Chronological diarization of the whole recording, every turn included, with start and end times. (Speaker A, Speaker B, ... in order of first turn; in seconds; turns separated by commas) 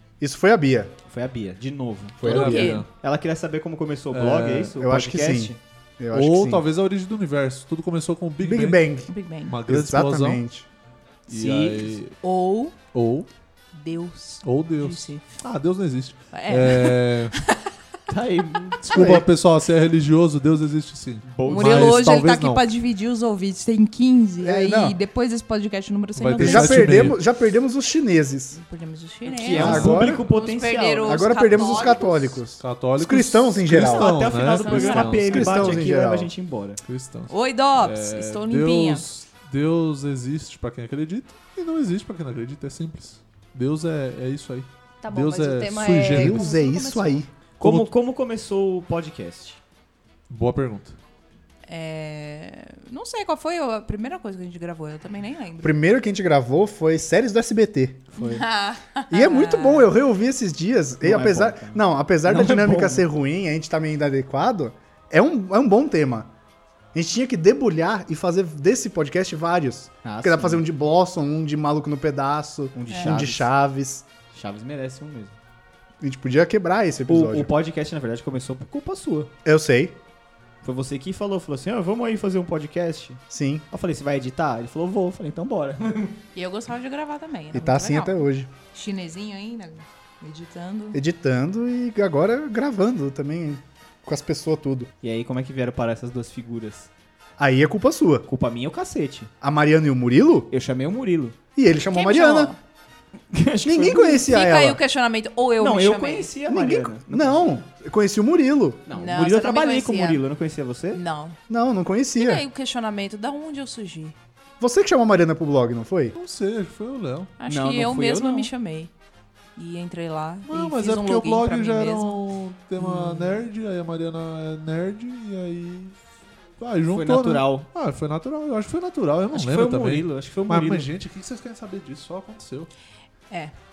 Speaker A: 0.2-0.9, Speaker B: 1.1-2.3, Speaker A: 2.2-2.8, Speaker C: 2.2-2.8, Speaker D: 2.2-2.9, Speaker B: 2.9-5.6, Speaker D: 4.1-4.8, Speaker A: 4.8-6.6, Speaker D: 6.1-8.8, Speaker A: 8.4-9.1, Speaker C: 9.1-9.6, Speaker D: 9.5-10.4, Speaker A: 9.7-10.7, Speaker B: 11.3-12.0, Speaker D: 11.3-12.2, Speaker C: 12.2-12.8, Speaker D: 12.9-13.3, Speaker C: 13.7-15.2, Speaker D: 14.4-17.3, Speaker C: 16.3-17.6, Speaker B: 18.1-18.8, Speaker D: 18.8-22.6, Speaker A: 18.9-19.3, Speaker B: 21.2-22.1, Speaker C: 21.4-27.1, Speaker A: 24.4-25.0, Speaker D: 26.1-27.2, Speaker A: 26.4-28.6, Speaker C: 28.5-32.4, Speaker B: 29.2-31.3, Speaker A: 29.6-30.2, Speaker D: 29.6-29.9, Speaker A: 31.1-34.1, Speaker D: 32.6-35.8, Speaker B: 33.7-36.8, Speaker C: 34.4-35.6, Speaker A: 35.2-36.3, Speaker D: 36.8-46.5, Speaker C: 37.3-39.0, Speaker C: 45.0-47.2, Speaker A: 46.1-47.3, Speaker B: 47.6-49.6, Speaker D: 47.6-47.9, Speaker D: 50.3-51.0, Speaker C: 51.7-55.8, Speaker A: 55.6-58.1, Speaker B: 58.1-58.4, Speaker C: 58.2-59.9, Speaker A: 59.1-66.3, Speaker B: 61.0-63.0, Speaker A: 66.9-74.0, Speaker B: 70.0-70.6, Speaker B: 72.7-73.5, Speaker C: 72.9-73.2, Speaker B: 74.3-75.4, Speaker A: 76.0-77.5, Speaker B: 77.1-79.3, Speaker A: 79.4-80.0, Speaker B: 80.6-86.2, Speaker A: 83.3-83.6, Speaker C: 86.3-91.0, Speaker A: 87.5-88.5, Speaker A: 90.9-94.9, Speaker B: 95.0-96.9, Speaker A: 97.4-98.2, Speaker B: 98.3-99.3, Speaker A: 99.4-100.5, Speaker B: 100.5-101.3, Speaker A: 101.5-102.5, Speaker C: 101.9-102.6, Speaker B: 103.3-104.2, Speaker A: 103.6-104.8, Speaker C: 104.0-106.3, Speaker B: 105.6-107.5, Speaker A: 106.5-108.8, Speaker B: 108.9-111.0, Speaker C: 108.9-110.2, Speaker C: 110.9-111.4, Speaker A: 111.5-112.4, Speaker C: 112.2-114.1, Speaker A: 114.6-116.1, Speaker D: 116.2-117.3, Speaker C: 117.4-118.9, Speaker B: 117.5-118.5, Speaker C: 119.5-122.2, Speaker D: 120.5-125.9, Speaker D: 126.6-132.7, Speaker B: 126.9-127.7, Speaker B: 129.3-130.9